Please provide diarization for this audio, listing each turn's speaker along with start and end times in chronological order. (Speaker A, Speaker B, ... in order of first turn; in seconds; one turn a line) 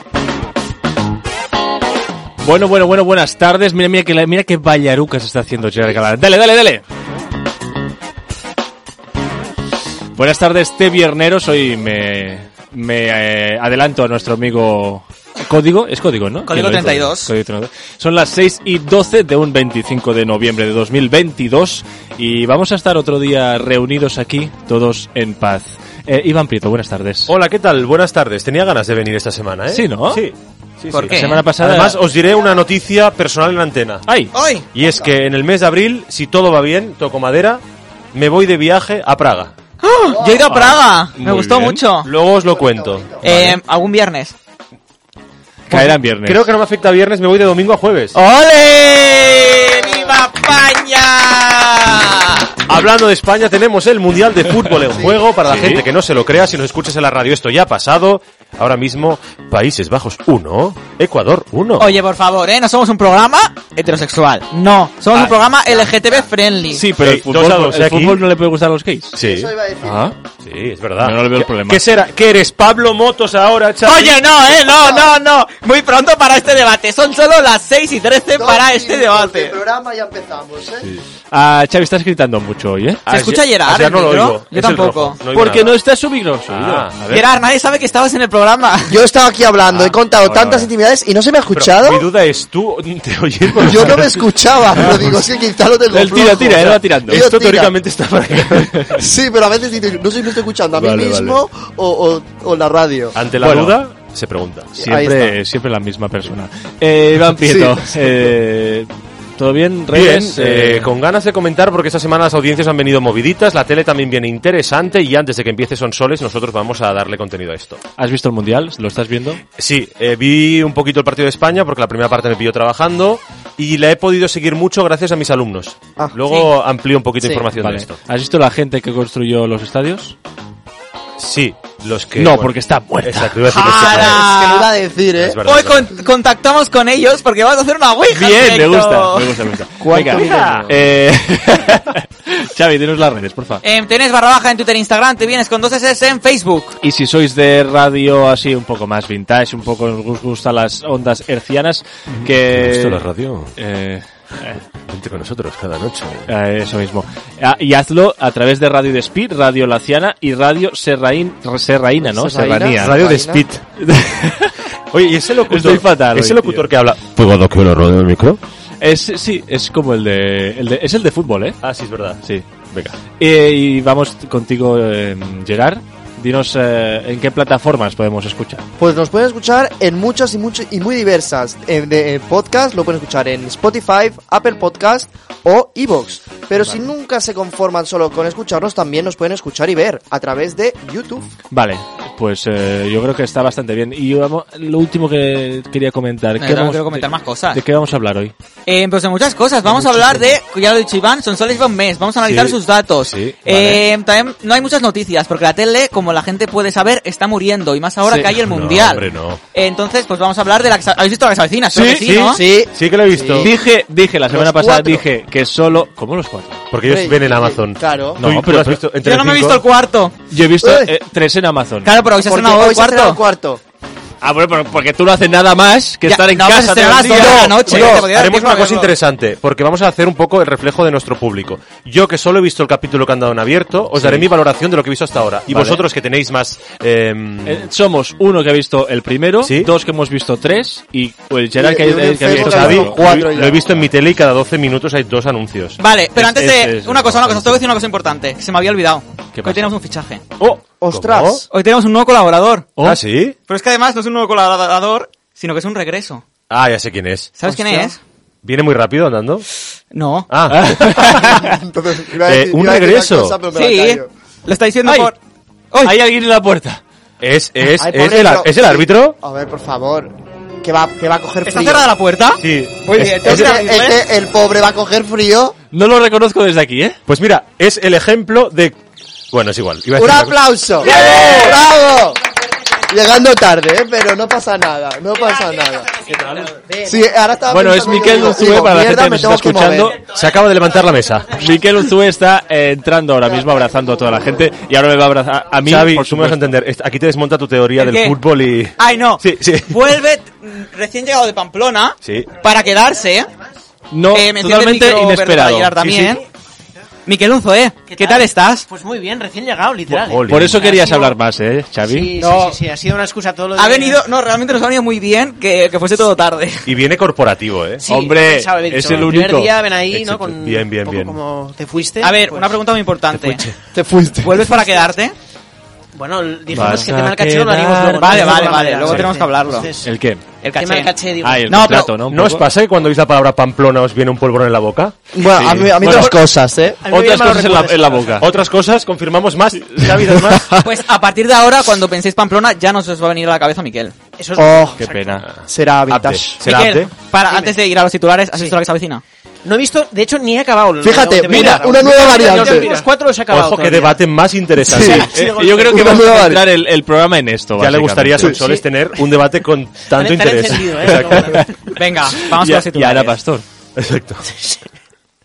Speaker A: 2.4-6.8
Speaker A: 10.2-27.3
Speaker B: 16.5-17.3
Speaker C: 27.3-34.0
Speaker A: 29.7-30.2
Speaker B: 30.9-31.5
Speaker A: 31.1-32.0
Speaker D: 32.4-32.6
Speaker A: 34.1-34.3
Speaker B: 34.3-34.7
Speaker C: 34.7-39.5
Speaker D: 34.8-35.2
Speaker B: 39.8-42.1
Speaker D: 40.1-40.6
Speaker A: 40.5-40.8
Speaker C: 41.2-43.6
Speaker D: 42.3-43.5
Speaker B: 43.2-44.4
Speaker A: 45.7-46.5
Speaker C: 45.7-48.2
Speaker B: 48.1-52.6
Speaker C: 52.7-61.9
Speaker A: 55.5-55.8
Speaker B: 61.8-66.8
Speaker A: 66.7-69.2
Speaker C: 67.0-68.2
Speaker C: 69.1-69.5
Speaker D: 69.2-70.2
Speaker A: 69.8-70.2
Speaker C: 70.4-74.2
Speaker A: 71.0-71.8
Speaker B: 73.8-79.6
Speaker D: 74.8-75.1
Speaker D: 78.3-80.9
Speaker A: 81.3-83.1
Speaker B: 83.1-85.2
Speaker C: 83.1-85.8
Speaker A: 85.3-87.3
Speaker C: 86.5-86.9
Speaker B: 87.1-89.0
Speaker D: 88.9-92.1
Speaker A: 89.7-90.7
Speaker C: 91.5-94.2
Speaker D: 93.6-97.7
Speaker A: 95.9-97.3
Speaker C: 97.1-99.0
Speaker D: 98.9-103.2
Speaker C: 100.8-101.4
Speaker C: 103.1-104.7
Speaker A: 103.4-103.8
Speaker D: 104.8-105.4
Speaker A: 104.8-111.0
Speaker D: 107.4-108.1
Speaker C: 109.9-117.8
Speaker A: 118.0-119.4
Speaker C: 119.6-127.9
Speaker D: 127.2-127.5
Speaker A: 127.6-130.2
Speaker C: 131.2-132.5
Speaker A: 132.2-133.4
Speaker C: 133.0-134.3
Speaker B: 133.5-134.7
Speaker D: 133.6-135.4
Speaker C: 135.2-135.9
Speaker B: 135.4-139.3
Speaker A: 138.1-143.6
Speaker D: 139.8-140.8
Speaker C: 140.1-140.8
Speaker B: 143.6-146.8
Speaker A: 146.8-154.6
Speaker C: 152.1-153.5
Speaker C: 154.9-156.3
Speaker A: 156.3-163.1
Speaker D: 162.0-163.5
Speaker C: 162.8-163.6
Speaker A: 163.8-164.6
Speaker C: 164.9-168.4
Speaker A: 165.5-166.7
Speaker A: 168.8-171.6
Speaker C: 171.6-172.2
Speaker A: 172.2-178.7
Speaker D: 178.8-191.3
Speaker A: 191.5-198.3
Speaker B: 196.4-197.6
Speaker B: 198.7-212.4
Speaker A: 199.8-200.3
Speaker C: 202.2-203.8
Speaker C: 208.4-209.4
Speaker A: 211.7-212.1
Speaker C: 212.1-213.5
Speaker D: 212.2-213.5
Speaker A: 213.4-216.6
Speaker D: 214.3-215.1
Speaker C: 216.7-219.6
Speaker D: 216.8-218.2
Speaker A: 218.2-218.8
Speaker B: 219.0-220.2
Speaker A: 220.3-221.9
Speaker D: 220.6-220.9
Speaker B: 221.8-223.2
Speaker D: 222.2-223.6
Speaker A: 224.2-227.7
Speaker B: 226.1-228.9
Speaker D: 227.0-228.1
Speaker C: 227.7-237.7
Speaker A: 233.9-234.3
Speaker A: 235.5-235.8
Speaker A: 237.4-243.0
Speaker C: 239.4-239.7
Speaker D: 241.6-243.8
Speaker C: 242.3-245.8
Speaker B: 245.8-250.2
Speaker A: 246.2-247.6
Speaker A: 249.3-249.7
Speaker C: 250.4-251.4
Speaker D: 250.8-251.5
Speaker B: 251.5-252.8
Speaker C: 252.8-253.4
Speaker B: 253.5-256.2
Speaker C: 256.5-257.3
Speaker B: 257.4-258.0
Speaker D: 257.5-257.9
Speaker C: 258.4-259.5
Speaker B: 259.9-260.3
Speaker C: 260.3-260.9
Speaker A: 260.5-261.6
Speaker D: 260.8-264.1
Speaker C: 262.3-263.4
Speaker B: 263.5-265.2
Speaker A: 264.9-265.1
Speaker A: 265.8-266.8
Speaker C: 267.2-269.2
Speaker D: 267.8-271.9
Speaker B: 271.4-274.0
Speaker C: 272.4-273.4
Speaker D: 273.0-275.6
Speaker A: 275.7-277.0
Speaker C: 277.1-278.8
Speaker C: 279.3-280.4
Speaker D: 279.9-282.2
Speaker B: 280.8-281.6
Speaker D: 282.9-285.9
Speaker E: 286.1-286.9
Speaker D: 286.8-290.0
Speaker A: 287.5-290.0
Speaker C: 290.0-291.6
Speaker A: 291.3-296.6
Speaker C: 295.6-299.8
Speaker B: 297.8-298.2
Speaker B: 298.8-303.3
Speaker C: 302.0-302.3
Speaker A: 303.9-306.2
Speaker B: 304.1-306.2
Speaker B: 307.1-308.7
Speaker E: 307.9-311.1
Speaker C: 309.9-310.6
Speaker A: 310.3-312.1
Speaker B: 310.6-311.1
Speaker E: 311.8-314.0
Speaker B: 312.2-312.6
Speaker B: 313.6-316.7
Speaker C: 316.7-317.9
Speaker A: 317.8-319.6
Speaker E: 317.8-322.6
Speaker C: 319.9-321.2
Speaker B: 322.0-323.4
Speaker D: 323.7-324.4
Speaker B: 324.2-325.1
Speaker E: 324.6-324.9
Speaker E: 325.9-329.9
Speaker A: 326.5-328.3
Speaker B: 328.0-329.7
Speaker A: 329.8-330.2
Speaker B: 330.4-330.9
Speaker E: 330.6-331.5
Speaker A: 331.2-332.5
Speaker B: 331.5-332.0
Speaker C: 332.1-335.0
Speaker D: 335.1-336.8
Speaker A: 335.2-336.2
Speaker E: 336.8-338.2
Speaker A: 336.9-338.3
Speaker C: 338.2-340.5
Speaker A: 339.8-340.7
Speaker B: 340.6-343.9
Speaker E: 344.2-345.2
Speaker D: 344.4-344.8
Speaker A: 344.8-345.3
Speaker C: 345.3-346.9
Speaker D: 345.5-346.4
Speaker B: 346.4-349.0
Speaker E: 347.3-347.6
Speaker E: 349.4-354.0
Speaker D: 350.8-352.7
Speaker B: 352.2-352.8
Speaker C: 353.3-355.1
Speaker D: 354.6-355.1
Speaker A: 354.8-358.4
Speaker E: 354.8-356.1
Speaker D: 355.6-356.4
Speaker C: 357.6-361.4
Speaker D: 358.2-358.6
Speaker E: 359.9-361.5
Speaker A: 361.1-361.5
Speaker B: 361.7-363.2
Speaker A: 362.1-363.4
Speaker C: 363.8-364.3